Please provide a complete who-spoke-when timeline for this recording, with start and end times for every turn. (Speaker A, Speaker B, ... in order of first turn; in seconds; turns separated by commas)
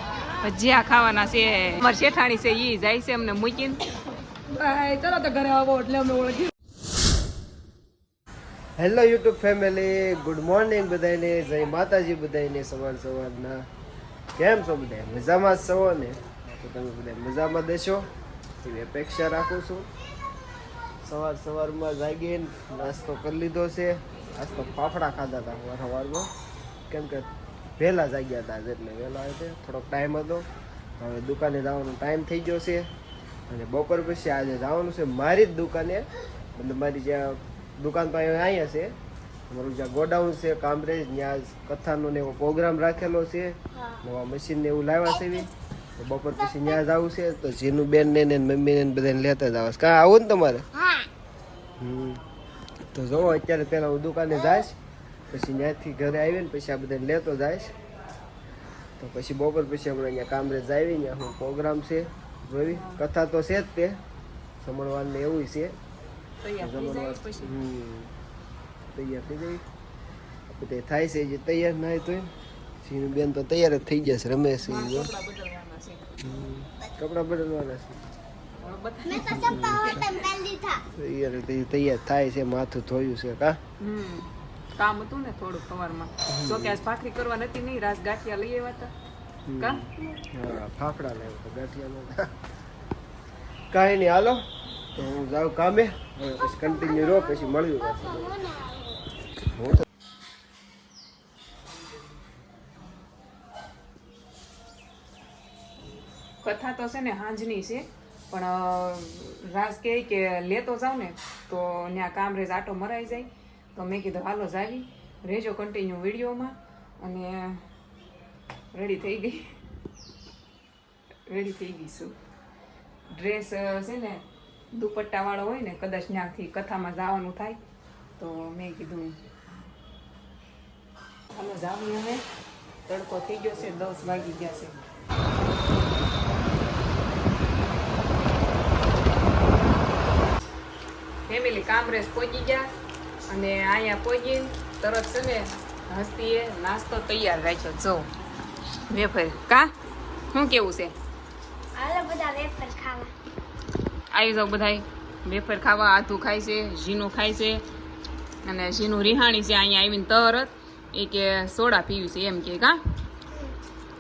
Speaker A: 0.4-3.8, Speaker B: 4.5-6.5, Speaker C: 8.8-13.6, Speaker C: 14.4-18.1, Speaker C: 18.6-19.9, Speaker C: 21.0-26.3, Speaker C: 26.9-30.5, Speaker C: 31.0-32.9, Speaker C: 33.5-39.0, Speaker C: 39.5-50.7, Speaker C: 51.8-52.2, Speaker C: 52.9-54.8, Speaker C: 55.3-57.8, Speaker C: 59.0-64.0, Speaker A: 62.7-63.0, Speaker C: 64.6-65.8, Speaker A: 66.4-67.5, Speaker C: 66.6-68.1, Speaker C: 68.9-69.6, Speaker C: 70.5-72.3, Speaker C: 72.8-75.1, Speaker A: 74.6-76.1, Speaker C: 76.2-78.0, Speaker A: 78.6-80.1, Speaker C: 79.3-80.2, Speaker D: 79.6-80.8, Speaker C: 80.9-83.6, Speaker A: 83.8-88.9, Speaker C: 86.3-86.8, Speaker C: 89.5-92.3, Speaker C: 93.7-94.4, Speaker C: 94.9-98.5, Speaker D: 98.5-98.9, Speaker C: 99.5-99.8, Speaker A: 106.4-117.6, Speaker A: 118.7-119.5, Speaker A: 121.3-122.2, Speaker A: 123.1-127.6, Speaker A: 128.2-129.2, Speaker A: 131.3-132.2, Speaker A: 132.9-134.8, Speaker A: 141.3-142.7, Speaker A: 143.3-148.1, Speaker A: 148.9-149.7, Speaker A: 150.3-150.9, Speaker D: 151.8-153.1, Speaker A: 154.1-157.6, Speaker A: 158.4-162.8